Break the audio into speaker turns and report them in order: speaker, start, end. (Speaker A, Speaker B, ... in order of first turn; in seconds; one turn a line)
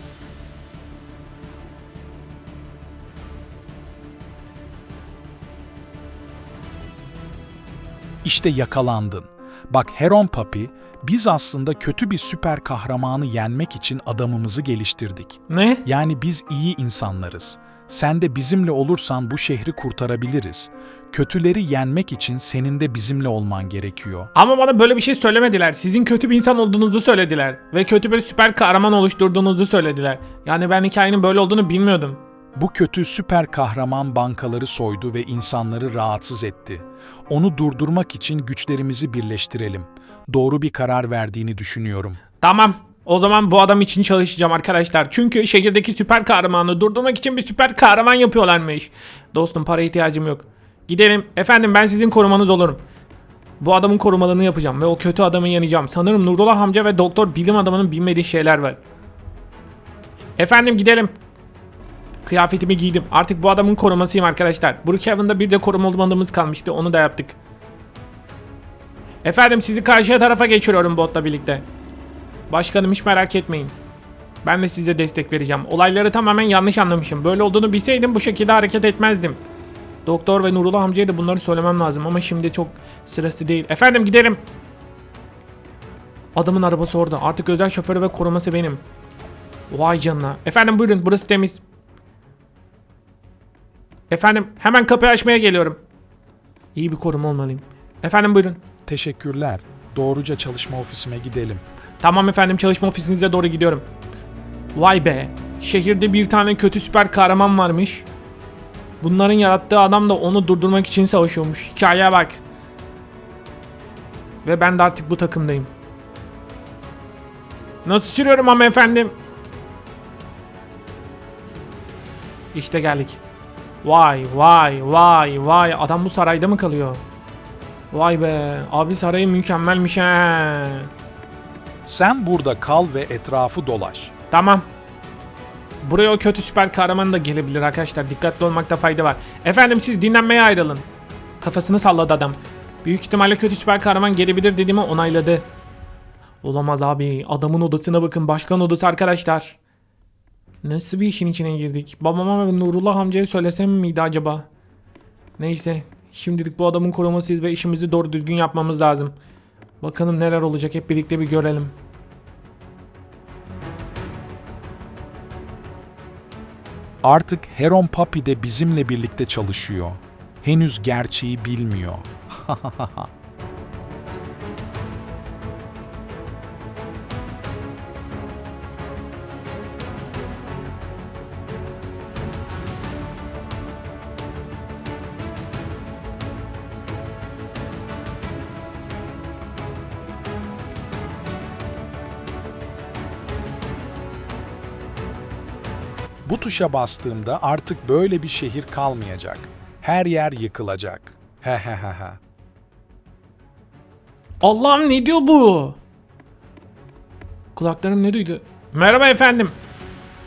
Speaker A: 8.2-24.3
Speaker B: 15.5-15.8
Speaker B: 24.3-32.2
Speaker A: 32.5-42.2
Speaker B: 42.4-52.8
Speaker B: 53.6-58.8
Speaker B: 60.4-61.1
Speaker B: 62.2-67.3
Speaker B: 69.2-71.7
Speaker B: 72.5-73.7
Speaker B: 74.4-79.4
Speaker B: 80.1-84.4
Speaker B: 86.3-88.8
Speaker B: 89.7-91.6
Speaker B: 94.1-95.8
Speaker B: 96.7-98.6
Speaker A: 98.9-101.6
Speaker B: 102.0-103.9
Speaker B: 104.7-108.1
Speaker B: 109.0-112.4
Speaker B: 114.4-115.7
Speaker B: 117.8-119.1
Speaker B: 122.5-123.2
Speaker B: 123.8-127.0
Speaker B: 127.9-130.9
Speaker A: 131.9-134.1
Speaker B: 134.3-134.6
Speaker B: 135.8-140.8
Speaker B: 141.4-145.4
Speaker B: 146.4-149.6
Speaker B: 150.6-154.5
Speaker B: 155.4-159.1
Speaker B: 159.8-161.7
Speaker A: 167.0-173.1
Speaker A: 196.2-202.2
Speaker B: 204.4-205.8
Speaker B: 207.6-209.6